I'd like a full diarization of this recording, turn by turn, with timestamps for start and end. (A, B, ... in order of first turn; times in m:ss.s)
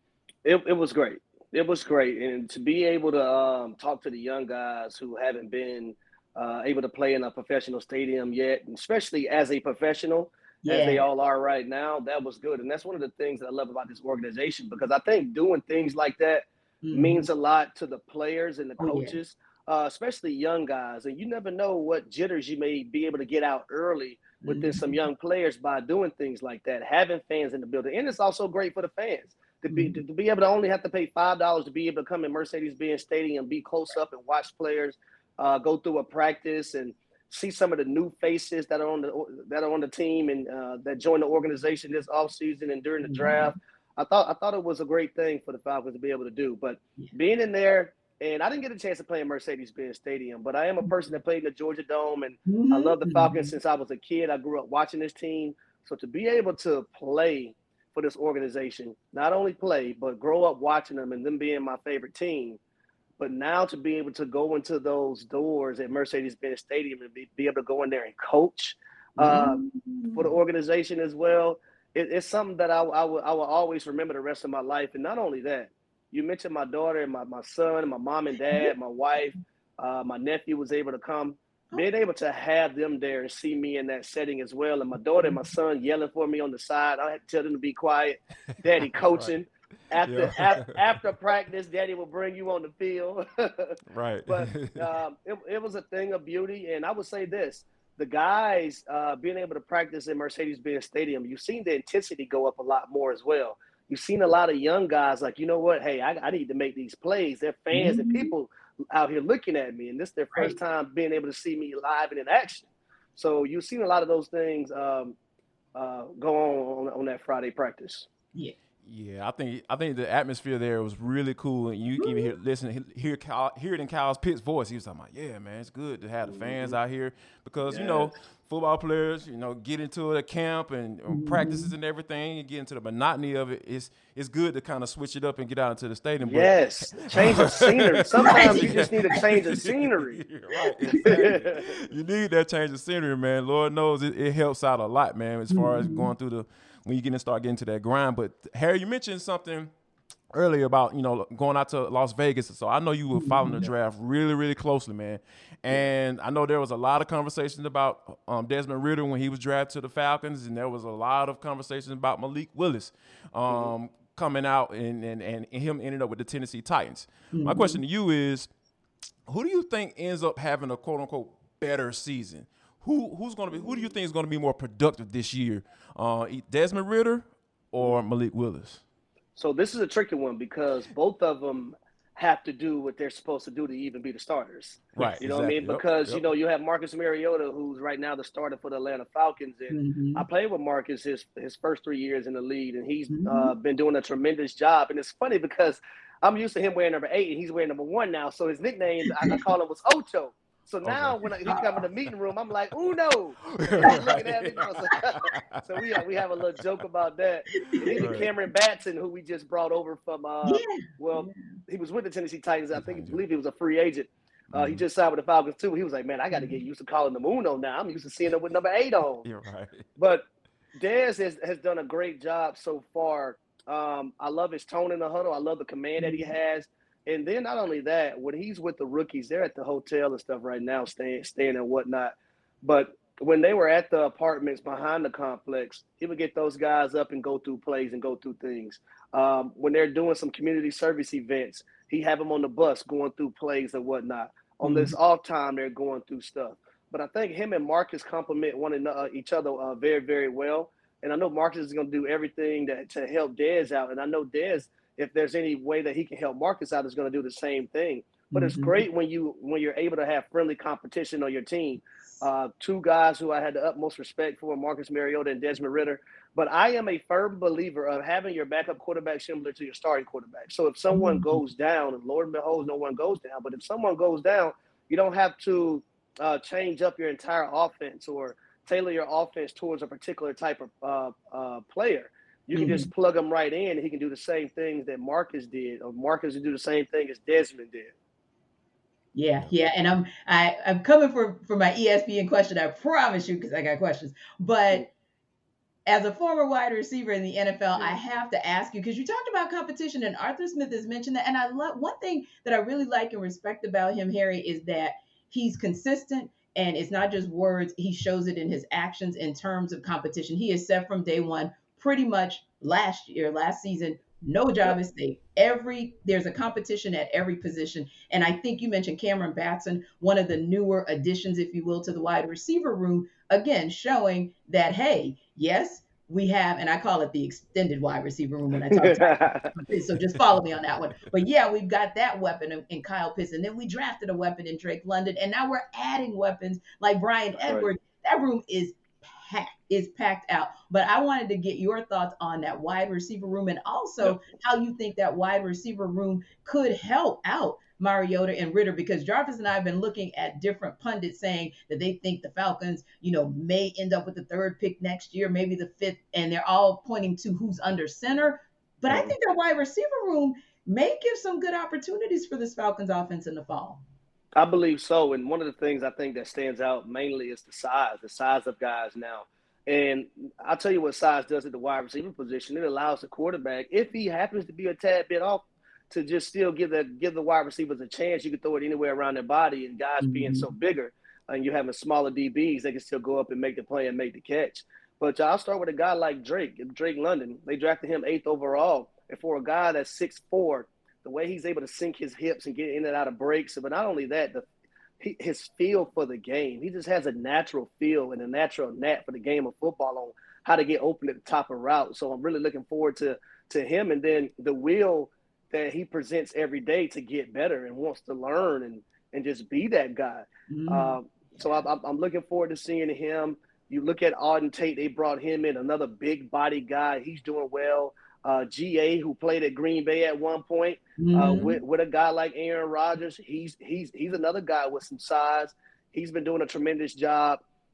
0:00.4-1:02.6 A
0:10.6-0:11.0 B
0:16.8-0:17.3 B
0:18.8-0:19.2 B
0:24.4-0:25.0 B
0:29.7-0:30.0 B
0:43.0-0:43.6 B
0:52.5-0:53.5 B
1:03.2-1:09.6 A
1:09.2-1:10.3 B
1:10.1-1:33.8 A
1:30.0-1:30.9 C
1:33.9-1:34.9 C
1:34.3-1:55.2 A
1:47.7-1:48.3 B
1:55.8-1:58.1 A
1:58.8-2:29.7 C
2:02.0-2:02.3 B
2:06.2-2:06.8 A
2:07.7-2:08.1 A
2:11.1-2:11.7 B
2:16.2-2:20.2 A
2:18.2-2:18.8 B
2:20.9-2:21.6 A
2:25.5-2:26.1 B
2:30.3-2:48.5 C
2:33.1-2:33.7 B
2:47.3-2:47.8 B
2:49.3-2:58.8 C
2:59.4-3:39.3 A
3:05.0-3:06.2 C
3:09.7-3:10.3 B
3:13.1-3:13.5 B
3:19.1-3:19.4 B
3:20.8-3:21.4 C
3:21.5-3:21.8 B
3:23.4-3:26.8 C
3:27.5-3:28.2 B
3:27.9-3:28.3 C
3:30.4-3:31.5 B
3:32.7-3:33.2 C
3:34.5-3:34.8 C
3:36.3-3:36.6 B
3:39.2-3:39.9 C
3:40.0-4:48.0 A
3:46.0-3:46.3 B
4:04.6-4:05.0 B
4:18.3-4:18.8 B
4:30.9-4:31.4 B
4:42.6-4:42.9 B
4:49.2-4:54.9 B
4:55.9-6:03.8 B
5:28.7-5:29.6 A
5:37.4-5:37.7 A
5:58.9-5:59.1 A
6:04.4-6:34.4 A
6:20.0-6:20.5 B
6:35.0-7:07.4 A
6:50.5-6:51.6 B
7:01.0-7:01.6 B